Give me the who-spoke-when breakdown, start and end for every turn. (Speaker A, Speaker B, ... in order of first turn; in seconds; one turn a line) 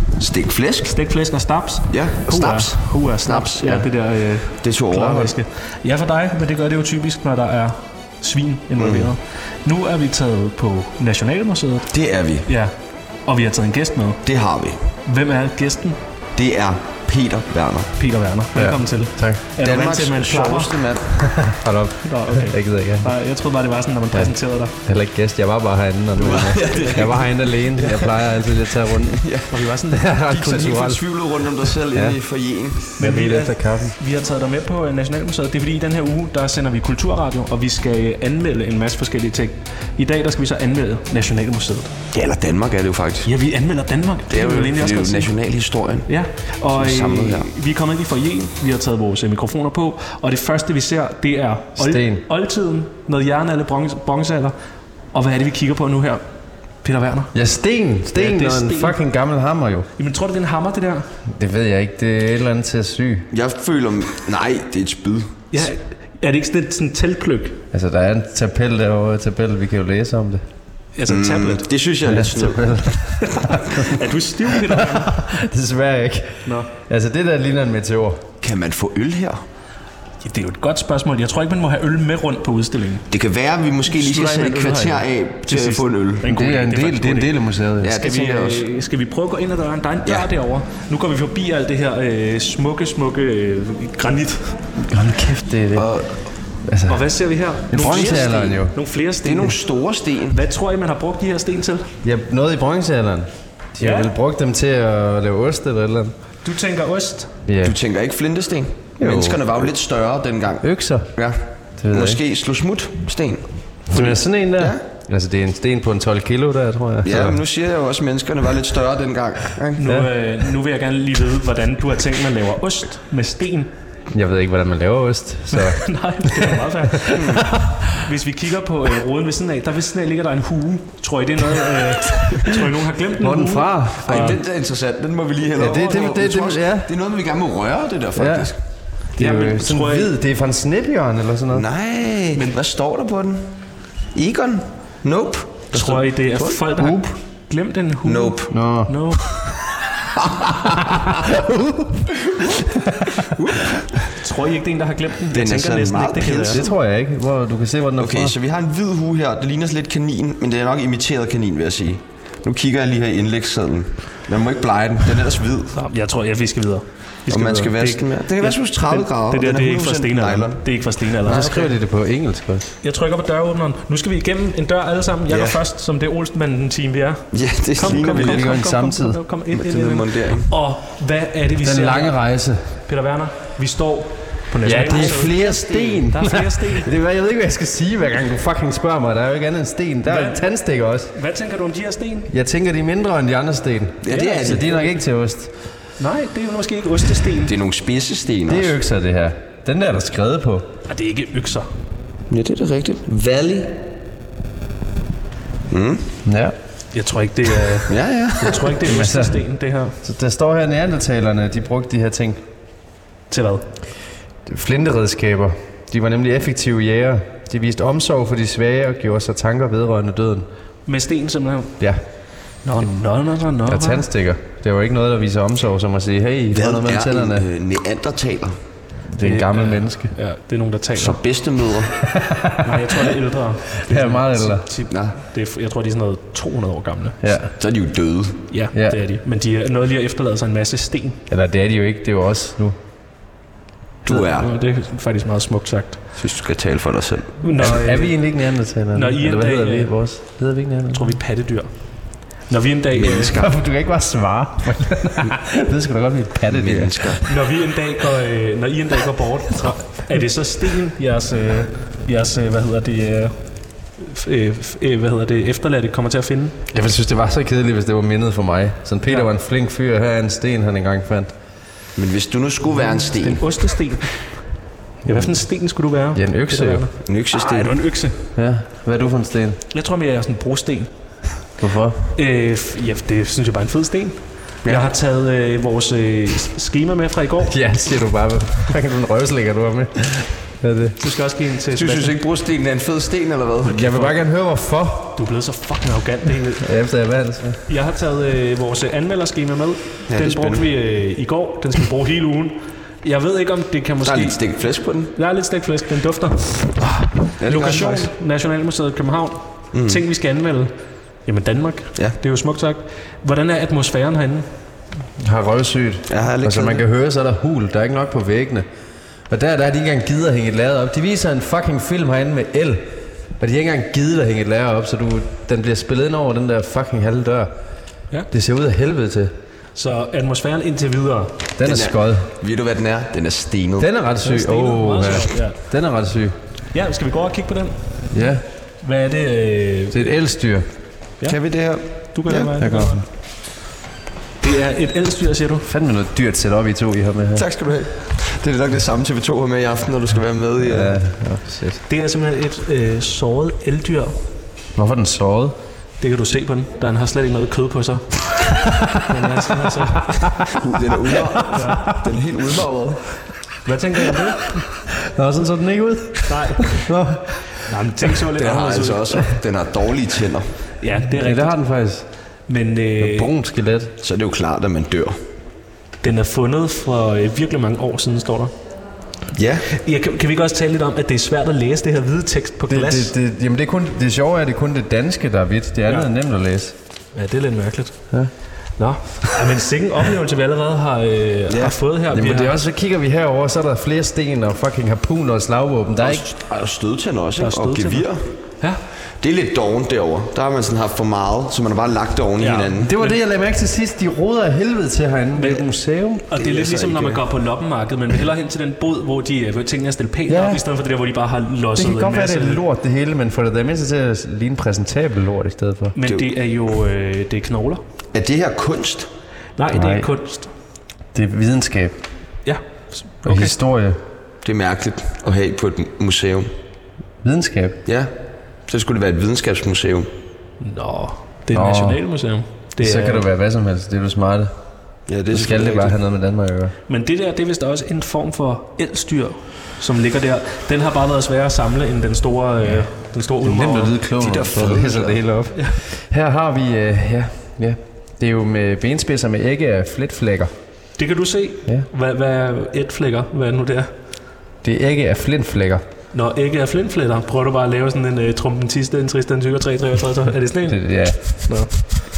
Speaker A: 0.2-0.9
Speaker B: 0.8-11.9
Speaker A: 1.9-3.9
Speaker A: 4.6-5.3
Speaker A: 8.8-9.1
Speaker A: 11.9-12.5
Speaker B: 12.4-12.7
Speaker B: 13.2-14.2
Speaker A: 14.2-14.8
Speaker B: 15.0-16.0
Speaker A: 16.4-17.9
Speaker B: 18.0-20.8
Speaker C: 18.5-19.4
Speaker A: 19.6-21.1
Speaker C: 21.1-23.1
Speaker B: 22.0-24.8
Speaker C: 24.8-29.2
Speaker A: 26.1-27.3
Speaker B: 26.5-28.0
Speaker A: 29.2-29.6
Speaker B: 29.5-30.1
Speaker C: 29.9-31.0
Speaker A: 30.3-32.9
Speaker C: 31.9-32.2
Speaker C: 32.9-34.0
Speaker B: 33.0-41.9
Speaker A: 42.1-43.3
Speaker B: 43.2-45.3
Speaker A: 44.3-46.1
Speaker B: 46.0-54.5
Speaker A: 46.7-47.5
Speaker C: 51.8-52.2
Speaker B: 55.1-56.2
Speaker B: 56.8-57.3
Speaker C: 57.3-59.9
Speaker B: 58.1-59.0
Speaker B: 60.0-61.1
Speaker C: 61.3-63.3
Speaker A: 63.3-65.3
Speaker B: 65.5-67.6
Speaker C: 67.7-70.4
Speaker B: 71.0-71.7
Speaker A: 71.1-73.2
Speaker C: 72.0-74.0
Speaker B: 73.4-75.4
Speaker C: 74.6-78.2
Speaker B: 76.4-76.7
Speaker A: 78.4-79.4
Speaker B: 80.2-83.0
Speaker A: 83.1-86.3
Speaker C: 83.9-85.0
Speaker B: 85.5-94.6
Speaker C: 86.2-88.0
Speaker A: 87.8-88.6
Speaker C: 94.8-96.0
Speaker A: 95.7-96.2
Speaker C: 96.6-97.0
Speaker B: 96.9-99.6
Speaker C: 97.7-98.7
Speaker A: 97.8-98.6
Speaker A: 99.2-100.4
Speaker B: 100.3-101.9
Speaker C: 102.0-106.1
Speaker B: 103.8-104.1
Speaker B: 106.4-107.3
Speaker C: 107.5-107.8
Speaker A: 107.6-114.8
Speaker C: 109.0-109.7
Speaker C: 110.6-111.1
Speaker C: 111.8-112.2
Speaker C: 113.9-117.4
Speaker A: 117.0-119.8
Speaker B: 119.8-123.7
Speaker C: 119.8-120.1
Speaker C: 124.1-127.2
Speaker B: 125.5-134.3
Speaker A: 127.1-127.5
Speaker C: 133.2-134.4
Speaker A: 134.1-138.6
Speaker C: 135.5-136.9
Speaker C: 138.2-138.5
Speaker B: 139.2-140.1
Speaker C: 139.2-141.7
Speaker A: 141.5-143.5
Speaker A: 144.1-146.6
Speaker B: 145.7-149.2
Speaker C: 146.7-147.1
Speaker A: 148.0-148.5
Speaker C: 148.5-148.9
Speaker A: 150.2-150.8
Speaker C: 150.6-153.3
Speaker A: 153.2-154.1
Speaker B: 154.2-156.6
Speaker A: 155.3-156.7
Speaker C: 156.5-158.3
Speaker A: 158.0-165.7
Speaker B: 165.7-171.7
Speaker A: 167.3-171.5
Speaker C: 171.3-172.7
Speaker B: 172.8-182.2
Speaker A: 175.3-175.6
Speaker A: 177.3-178.6
Speaker C: 178.0-179.2
Speaker A: 179.5-180.5
Speaker C: 181.6-182.7
Speaker B: 182.8-186.9
Speaker C: 184.6-191.1
Speaker A: 184.7-186.0
Speaker B: 190.0-190.4
Speaker B: 191.1-192.3
Speaker C: 192.3-195.5
Speaker A: 194.0-194.7
Speaker B: 194.1-194.8
Speaker B: 196.0-197.5
Speaker A: 197.4-198.7
Speaker C: 198.5-200.7
Speaker B: 200.9-201.7
Speaker A: 202.3-203.2
Speaker C: 203.1-203.7
Speaker A: 205.7-206.0
Speaker C: 206.2-206.5
Speaker B: 206.9-209.9
Speaker A: 207.9-208.7
Speaker C: 208.8-209.4
Speaker C: 210.0-212.4
Speaker B: 213.3-213.7
Speaker C: 214.4-220.4
Speaker B: 220.8-221.8
Speaker B: 222.6-224.1
Speaker C: 223.7-227.4
Speaker A: 226.5-228.6
Speaker C: 229.1-230.1
Speaker B: 229.2-231.2
Speaker A: 230.9-232.0
Speaker C: 232.1-232.8
Speaker B: 232.6-237.2
Speaker C: 233.8-234.6
Speaker A: 234.9-235.2
Speaker C: 237.2-237.5
Speaker A: 237.6-238.4
Speaker B: 238.5-241.2
Speaker C: 238.7-239.0
Speaker C: 241.3-242.8
Speaker A: 244.0-244.5
Speaker B: 244.0-246.0
Speaker A: 246.2-247.4
Speaker B: 247.4-248.2
Speaker C: 247.6-251.1
Speaker B: 248.9-249.9
Speaker B: 250.9-253.3
Speaker A: 252.9-253.5
Speaker C: 253.3-257.3
Speaker A: 256.5-257.2
Speaker B: 257.2-266.6
Speaker C: 266.7-271.3
Speaker A: 271.9-273.7
Speaker B: 273.0-274.5
Speaker C: 275.0-275.4
Speaker B: 275.0-278.2
Speaker C: 276.1-276.9
Speaker A: 277.0-277.7
Speaker C: 278.4-279.6
Speaker B: 279.7-280.9
Speaker C: 281.6-282.0
Speaker B: 282.1-287.5
Speaker C: 287.4-291.0
Speaker B: 291.0-292.2
Speaker A: 291.7-293.8
Speaker C: 293.6-295.2
Speaker B: 293.7-294.1
Speaker B: 295.1-296.6
Speaker C: 296.6-297.6
Speaker B: 297.7-304.5
Speaker A: 300.1-300.6
Speaker A: 304.0-305.1
Speaker B: 305.1-314.5
Speaker A: 307.4-308.1
Speaker A: 309.7-310.0
Speaker C: 315.2-318.6
Speaker A: 316.1-316.8
Speaker C: 319.3-327.5
Speaker C: 328.3-329.3
Speaker B: 329.7-331.3
Speaker C: 331.6-332.3
Speaker A: 331.6-333.9
Speaker C: 333.8-336.4
Speaker B: 334.2-335.6
Speaker B: 336.7-338.1
Speaker C: 338.1-338.4
Speaker B: 338.8-340.0
Speaker C: 339.9-340.6
Speaker A: 341.2-342.5
Speaker B: 342.1-343.0
Speaker C: 342.6-343.0
Speaker B: 344.4-345.7
Speaker C: 345.6-347.4
Speaker A: 347.3-351.0
Speaker C: 350.6-351.8
Speaker B: 351.9-354.1
Speaker C: 354.7-355.6
Speaker B: 356.0-360.3
Speaker C: 359.1-360.6
Speaker A: 360.6-363.2
Speaker B: 361.5-361.9
Speaker C: 361.5-362.0
Speaker B: 363.6-364.6
Speaker C: 364.9-367.6
Speaker B: 366.2-366.9
Speaker B: 367.6-369.3
Speaker A: 368.4-370.6
Speaker B: 370.8-371.6
Speaker C: 371.2-372.1
Speaker B: 372.5-373.3
Speaker C: 373.0-373.9
Speaker A: 374.0-375.2
Speaker B: 376.0-378.5
Speaker A: 379.3-379.6
Speaker B: 379.7-383.1
Speaker C: 382.7-386.7
Speaker B: 387.1-388.0
Speaker B: 388.8-392.6
Speaker A: 391.5-391.7
Speaker C: 392.1-396.2
Speaker A: 396.0-398.2
Speaker B: 397.4-398.1
Speaker A: 399.2-402.9
Speaker B: 402.4-403.2
Speaker C: 402.8-406.3
Speaker B: 405.3-405.7
Speaker B: 406.3-412.6
Speaker A: 406.4-407.2
Speaker C: 410.3-410.6
Speaker C: 411.7-415.9
Speaker B: 415.9-417.8
Speaker A: 418.1-419.1
Speaker B: 419.6-420.5
Speaker C: 419.7-420.1
Speaker C: 421.1-422.0
Speaker B: 422.4-423.5
Speaker C: 423.2-424.0
Speaker A: 424.4-426.5
Speaker C: 427.2-427.8
Speaker A: 428.7-430.1
Speaker B: 430.6-433.2
Speaker C: 431.5-432.0
Speaker C: 432.8-434.5
Speaker A: 435.1-435.9
Speaker C: 435.3-436.7
Speaker B: 436.9-444.5
Speaker C: 443.4-450.5
Speaker A: 444.2-445.2
Speaker B: 451.0-453.9
Speaker C: 454.6-455.8
Speaker B: 456.1-461.9
Speaker C: 460.7-461.2